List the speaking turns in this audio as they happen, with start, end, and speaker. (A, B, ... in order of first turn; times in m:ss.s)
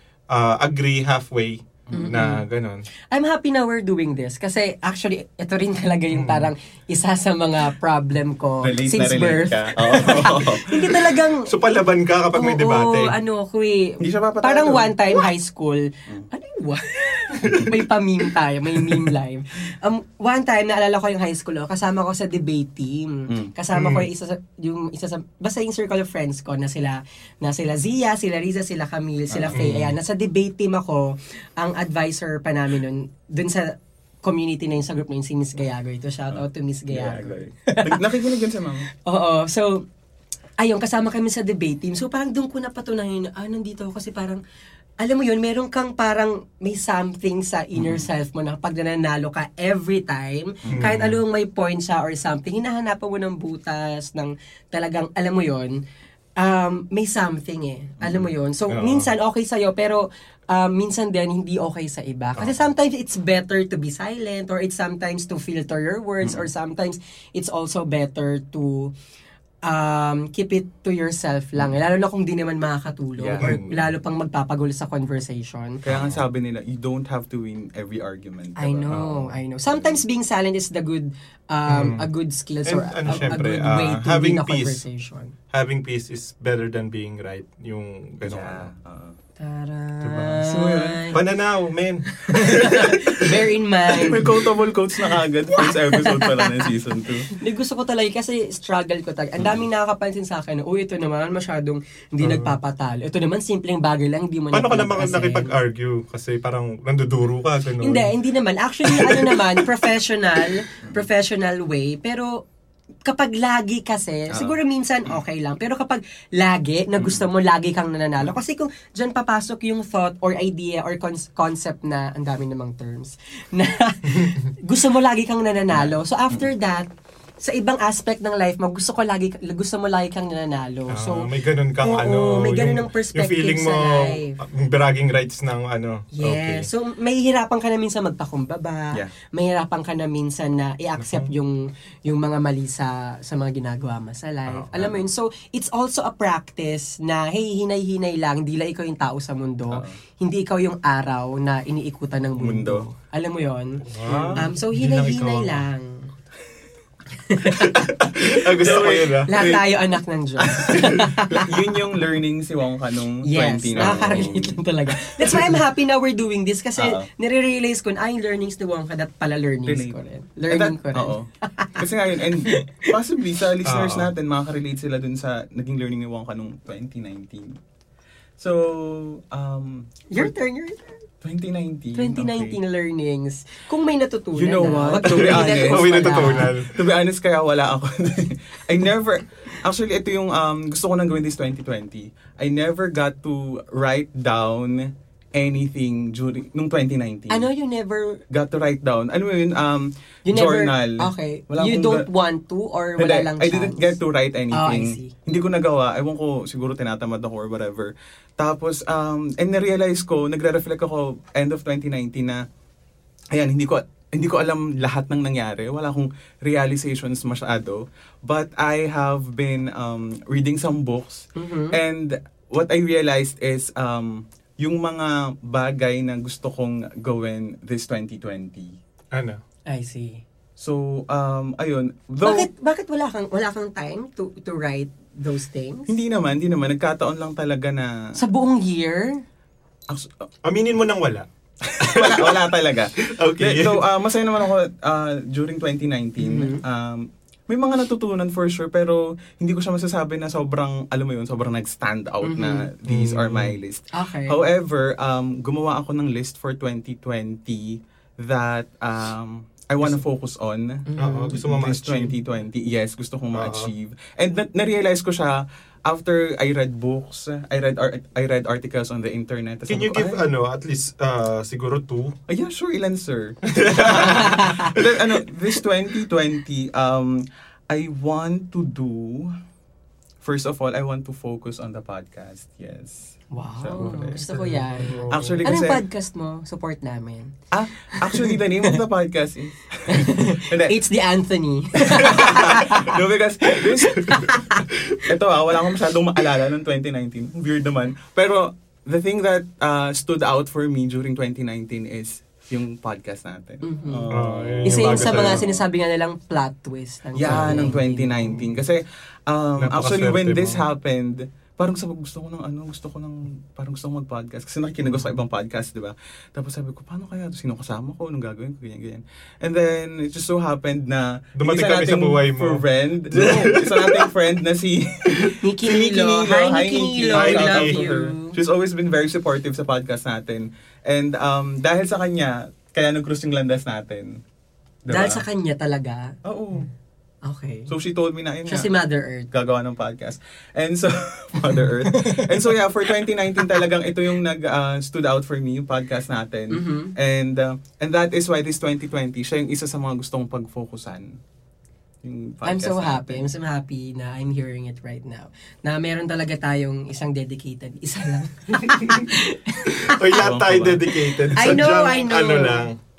0:00.3-0:02.8 A
0:01.9-0:02.3 B
0:01.9-0:02.4 C
0:03.1-0:11.5 C
0:06.1-0:06.5 A
0:08.6-0:11.1 B
0:11.5-0:13.1 A
0:12.3-0:38.3 C
0:14.0-0:15.2 B
0:17.4-0:17.7 B
0:23.3-0:23.5 B
0:23.7-0:24.0 A
0:29.3-0:29.9 B
0:29.5-0:29.8 A
0:36.3-0:38.9 B
0:39.0-0:39.8 C
0:40.6-0:44.4 C
0:45.0-0:55.8 C
0:47.7-0:48.1 B
0:50.6-0:51.0 B
0:50.7-0:51.2 A
0:56.4-1:08.9 C
0:58.0-0:58.3 B
0:58.7-0:59.1 A
1:06.2-1:06.5 B
1:09.6-1:15.8 C
1:13.2-1:13.6 B
1:13.4-1:13.8 A
1:15.8-1:20.0 B
1:18.6-1:25.3 C
1:21.7-1:22.1 A
1:22.6-1:24.8 A
1:23.1-1:23.4 B
1:25.5-1:28.7 A
1:28.2-1:29.2 B
1:29.4-1:31.2 C
1:30.0-1:30.4 A
1:30.4-1:31.0 B
1:31.1-1:33.3 A
1:32.1-1:34.4 C
1:32.7-1:33.0 B
1:33.9-1:37.3 B
1:35.5-1:36.7 C
1:37.3-1:45.5 C
1:39.4-1:39.6 B
1:42.2-1:42.6 A
1:44.5-1:48.1 A
1:47.8-1:52.4 C
1:48.9-1:49.6 A
1:53.0-2:11.3 C
1:54.3-1:54.6 B
1:57.0-1:57.3 B
2:04.1-2:04.5 A
2:05.7-2:06.5 B
2:10.9-2:16.7 A
2:11.8-2:14.4 C
2:16.1-2:33.8 C
2:21.0-2:21.3 A
2:24.7-2:25.0 B
2:29.7-2:30.0 B
2:32.4-2:32.8 B
2:33.9-2:35.6 A
2:34.0-2:34.4 B
2:34.4-2:36.1 C
2:37.2-2:37.7 C
2:37.6-2:39.4 A
2:38.3-2:41.8 C
2:38.5-2:39.7 B
2:40.4-2:45.5 B
2:43.2-2:51.8 C
2:43.8-2:44.1 A
2:46.8-2:47.1 B
2:49.6-2:50.0 B
2:50.5-2:57.6 B
2:52.4-2:52.9 C
2:53.6-2:54.1 A
2:58.4-3:00.3 B
3:00.1-3:01.0 C
3:01.2-3:02.6 B
3:01.9-3:06.5 C
3:04.3-3:17.5 B
3:05.0-3:06.7 A
3:17.3-3:18.2 C
3:18.3-3:22.1 B
3:20.2-3:24.0 C
3:23.0-3:32.4 B
3:24.5-3:25.1 C
3:33.3-3:48.8 B
3:41.4-3:41.8 C
3:49.1-3:49.4 A
3:49.7-3:50.2 C
3:50.6-3:52.5 B
3:52.2-3:55.9 C
3:55.9-3:58.2 B
3:58.2-3:59.2 C
3:59.9-4:00.2 B
4:00.4-4:02.5 A
4:01.8-4:30.3 B
4:03.0-4:03.8 A
4:06.2-4:06.6 C
4:12.2-4:12.7 C
4:12.9-4:13.6 A
4:13.9-4:14.4 C
4:20.9-4:21.3 C
4:21.0-4:22.1 A
4:23.3-4:23.7 A
4:29.7-4:32.2 A
4:32.3-4:39.4 B
4:33.5-4:34.9 A
4:33.9-4:34.8 C
4:40.2-4:44.2 B
4:43.3-4:47.4 C
4:43.8-4:45.6 A
4:45.1-4:45.8 B
4:47.5-4:50.8 B
4:47.9-4:48.8 C
4:49.9-4:54.6 C
4:51.8-5:05.6 B
5:03.6-5:04.1 C
5:04.1-5:05.4 A
5:04.6-5:08.4 C
5:07.1-5:34.2 B
5:07.2-5:07.8 A
5:09.6-5:10.6 A
5:21.4-5:24.1 A
5:23.2-5:23.5 C
5:25.4-5:28.4 C
5:27.1-5:27.7 A
5:34.8-5:35.2 B
5:34.9-5:36.1 C
5:36.2-5:36.7 B
5:37.2-5:37.7 C
5:37.7-5:38.7 B
5:38.5-5:39.3 C
5:39.3-5:51.2 B
5:41.8-5:42.4 C
5:46.5-5:46.9 C
5:52.0-5:53.3 B
5:52.4-6:00.1 C
5:59.8-6:02.8 A
6:00.2-6:01.7 B
6:01.3-6:02.7 C